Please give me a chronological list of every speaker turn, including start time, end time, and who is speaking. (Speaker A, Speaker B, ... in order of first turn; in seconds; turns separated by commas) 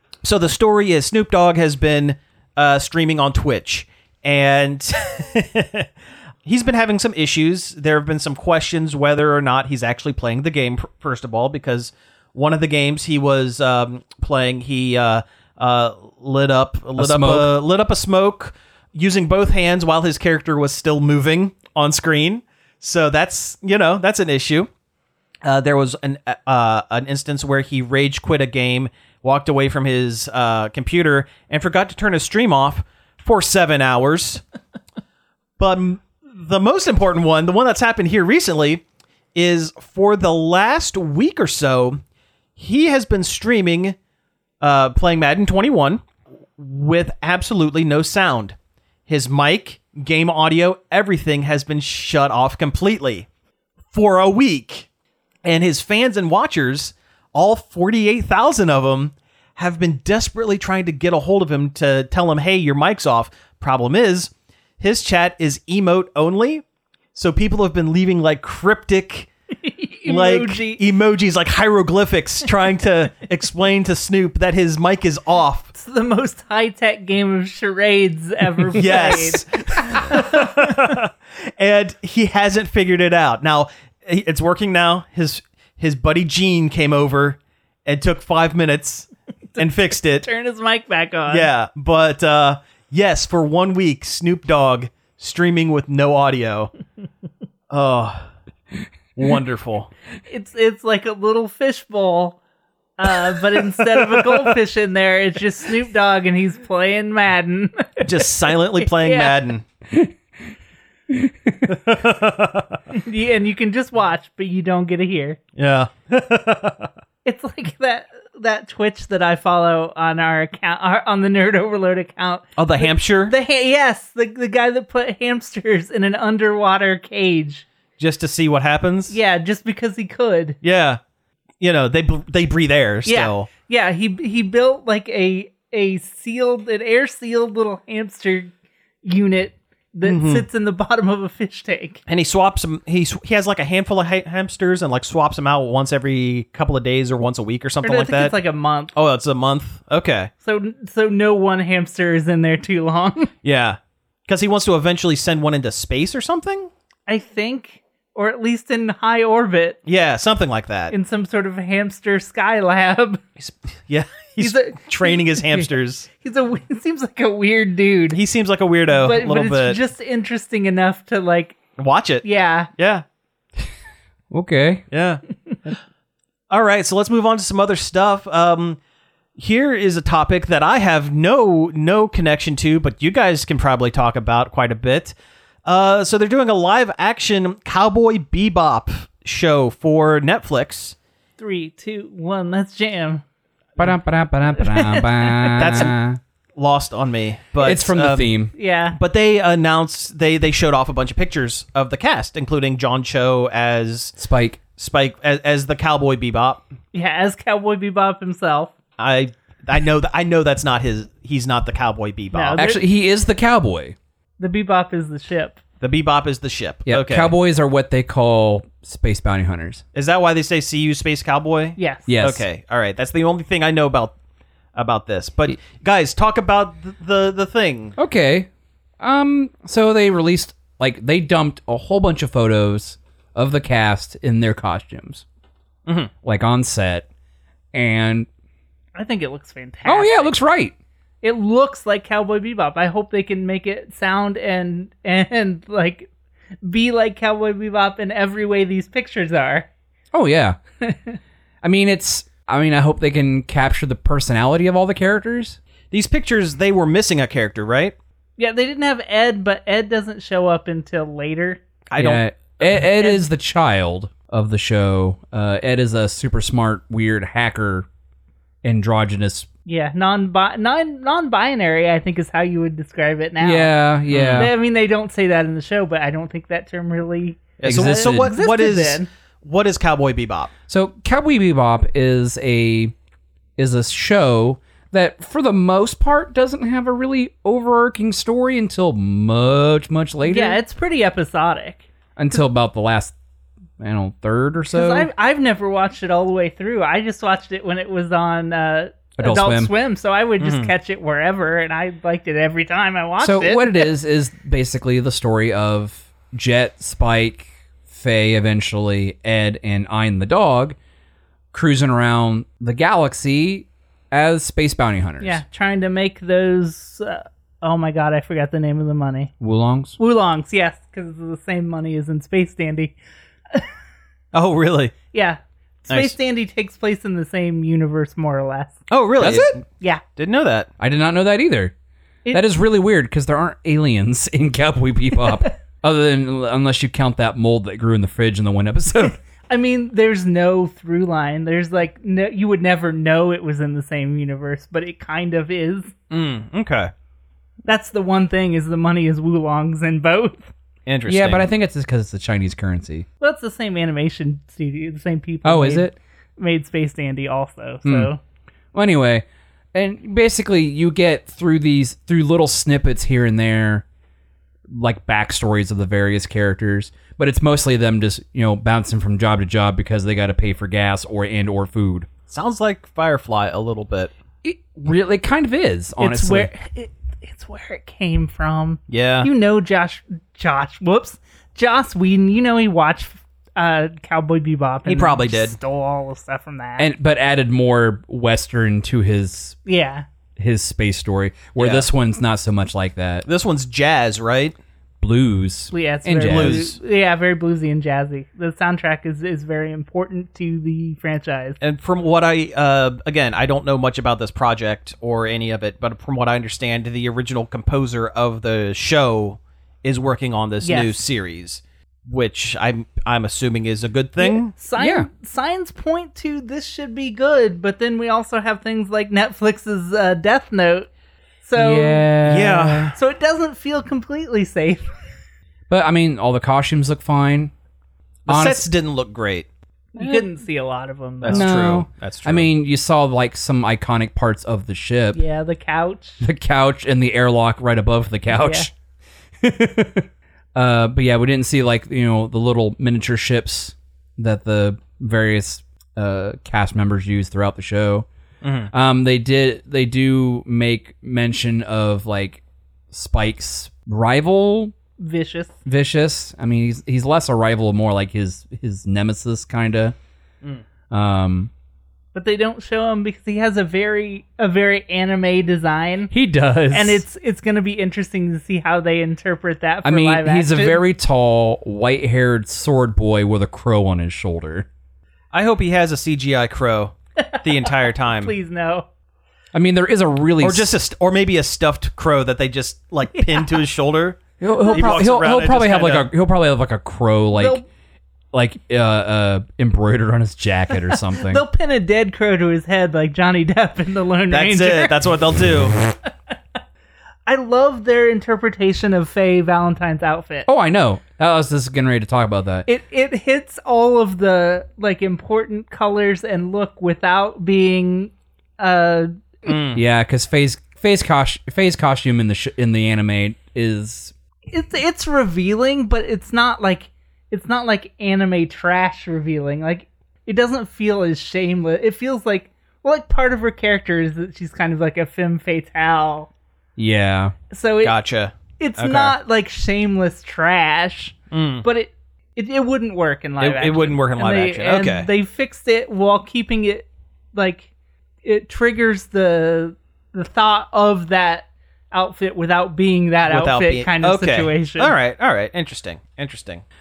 Speaker A: 0.2-5.9, Speaker A: 6.4-24.7, Speaker B: 17.0-17.5, Speaker A: 25.4-34.4, Speaker A: 35.6-38.8, Speaker A: 39.3-42.0, Speaker A: 42.5-44.0, Speaker A: 44.6-46.0, Speaker A: 46.6-48.5, Speaker A: 49.1-53.3, Speaker A: 53.9-54.9, Speaker A: 55.4-69.3, Speaker C: 69.6-70.8, Speaker A: 70.0-75.7, Speaker C: 75.7-80.7, Speaker A: 78.7-90.3, Speaker C: 89.5-91.5, Speaker A: 91.3-96.7, Speaker A: 97.7-98.2, Speaker A: 99.2-99.9, Speaker C: 100.3-102.4, Speaker C: 103.0-109.4, Speaker A: 108.0-109.6, Speaker B: 111.1-111.7, Speaker A: 111.7-112.8, Speaker C: 112.9-115.4, Speaker A: 115.5-116.9, Speaker C: 117.2-127.6, Speaker A: 122.5-123.3, Speaker A: 128.0-129.2, Speaker C: 129.1-130.6, Speaker A: 130.6-131.0, Speaker A: 131.6-133.5, Speaker C: 133.0-138.5, Speaker C: 139.0-142.0, Speaker A: 140.0-140.4, Speaker A: 142.1-148.4, Speaker C: 147.8-148.9, Speaker A: 148.9-150.3, Speaker C: 150.4-153.3, Speaker A: 153.4-156.7, Speaker C: 157.1-159.8, Speaker A: 159.8-160.9, Speaker C: 160.9-163.2, Speaker A: 163.4-166.1, Speaker C: 164.4-165.3, Speaker C: 166.2-168.2, Speaker A: 168.1-169.8, Speaker C: 168.9-171.6, Speaker A: 171.8-173.0, Speaker C: 172.2-172.7, Speaker B: 174.3-174.8, Speaker A: 174.9-175.2, Speaker A: 176.5-178.8, Speaker A: 179.3-185.1, Speaker A: 185.6-190.9, Speaker C: 191.4-193.2, Speaker B: 193.8-196.2, Speaker C: 194.6-195.8, Speaker A: 195.6-195.9, Speaker A: 196.6-198.3, Speaker B: 197.6-198.5, Speaker C: 198.5-199.0, Speaker A: 198.9-204.1, Speaker B: 204.2-204.6, Speaker A: 204.8-206.6, Speaker C: 206.9-208.7, Speaker A: 209.0-212.6, Speaker C: 212.3-212.8, Speaker B: 212.6-213.9, Speaker C: 214.4-215.6, Speaker A: 215.8-217.3, Speaker B: 216.8-219.8, Speaker A: 219.9-224.1, Speaker C: 221.8-222.1, Speaker B: 222.1-222.4, Speaker A: 224.7-227.9, Speaker B: 228.0-228.5, Speaker B: 229.0-235.2, Speaker A: 235.8-236.1, Speaker B: 236.2-237.1, Speaker B: 237.7-238.3, Speaker C: 238.9-240.3, Speaker B: 239.8-240.7, Speaker C: 241.2-246.1, Speaker C: 246.6-249.7, Speaker B: 250.1-250.6, Speaker C: 250.8-251.2, Speaker B: 251.6-255.6, Speaker A: 255.9-257.9, Speaker C: 258.4-261.6, Speaker A: 261.9-262.2, Speaker B: 262.0-267.9, Speaker B: 268.6-269.5, Speaker C: 269.7-273.7, Speaker B: 273.4-274.5, Speaker A: 274.1-274.5, Speaker C: 274.3-279.1, Speaker A: 277.6-280.5, Speaker B: 277.6-278.3, Speaker B: 280.7-282.9, Speaker B: 283.6-290.6, Speaker C: 290.2-291.9, Speaker B: 292.1-293.1, Speaker B: 293.8-295.1, Speaker C: 294.7-303.9, Speaker B: 299.2-299.7, Speaker A: 300.4-300.7, Speaker B: 303.2-310.8, Speaker B: 311.5-315.4, Speaker C: 315.2-319.3, Speaker B: 319.4-320.0, Speaker C: 320.0-322.9, Speaker A: 324.3-324.9, Speaker C: 325.1-328.8, Speaker A: 325.9-326.1, Speaker A: 328.9-329.6, Speaker B: 329.2-329.5, Speaker A: 330.1-330.7, Speaker B: 330.8-331.7, Speaker B: 332.3-339.2, Speaker C: 335.2-335.5, Speaker C: 339.5-345.9, Speaker A: 346.1-346.9, Speaker C: 347.7-350.5, Speaker A: 350.9-351.5, Speaker B: 351.1-353.1, Speaker C: 353.2-358.2, Speaker B: 355.4-355.9, Speaker B: 358.7-363.8, Speaker B: 364.7-372.1, Speaker A: 372.3-374.1, Speaker B: 374.4-376.5, Speaker C: 376.0-386.9, Speaker A: 378.9-379.3, Speaker A: 384.9-385.6, Speaker B: 386.8-389.6, Speaker C: 389.6-390.1, Speaker B: 390.4-393.2, Speaker A: 391.6-391.9, Speaker A: 393.2-394.5, Speaker B: 395.0-396.6, Speaker C: 395.7-401.6, Speaker A: 396.2-396.8, Speaker A: 401.6-414.5, Speaker C: 410.6-410.9, Speaker C: 414.2-420.9, Speaker B: 414.8-415.1, Speaker C: 421.4-422.1, Speaker B: 421.6-422.9, Speaker A: 422.2-422.9, Speaker C: 422.9-424.9, Speaker B: 425.7-427.5, Speaker A: 428.3-429.5, Speaker B: 428.3-428.6, Speaker C: 429.9-431.5, Speaker B: 430.0-430.3, Speaker A: 431.2-432.5, Speaker B: 431.3-435.2, Speaker C: 435.1-436.2, Speaker B: 436.2-438.7, Speaker C: 438.3-438.7, Speaker B: 439.4-448.1, Speaker A: 448.4-448.7, Speaker B: 448.7-452.4, Speaker B: 452.9-454.7, Speaker C: 455.0-455.6, Speaker B: 455.6-459.9, Speaker B: 460.9-461.5, Speaker C: 462.1-466.1, Speaker B: 466.1-467.0, Speaker C: 466.7-470.8, Speaker B: 469.8-474.7, Speaker A: 475.3-478.3, Speaker C: 477.2-478.9, Speaker B: 479.5-480.7, Speaker A: 480.4-486.1, Speaker C: 483.1-483.6, Speaker B: 484.4-487.6, Speaker C: 487.3-487.6, Speaker B: 488.3-491.4, Speaker C: 491.2-495.0, Speaker A: 494.3-495.8, Speaker C: 497.3-500.5, Speaker B: 500.5-502.7, Speaker C: 502.7-509.1, Speaker A: 509.4-509.8, Speaker B: 509.7-514.1, Speaker C: 514.5-526.3, Speaker B: 526.8-527.3, Speaker C: 527.5-528.0, Speaker A: 527.8-529.1, Speaker C: 528.6-537.7, Speaker A: 531.3-531.6, Speaker A: 533.4-535.1, Speaker C: 538.2-544.9, Speaker A: 543.2-546.6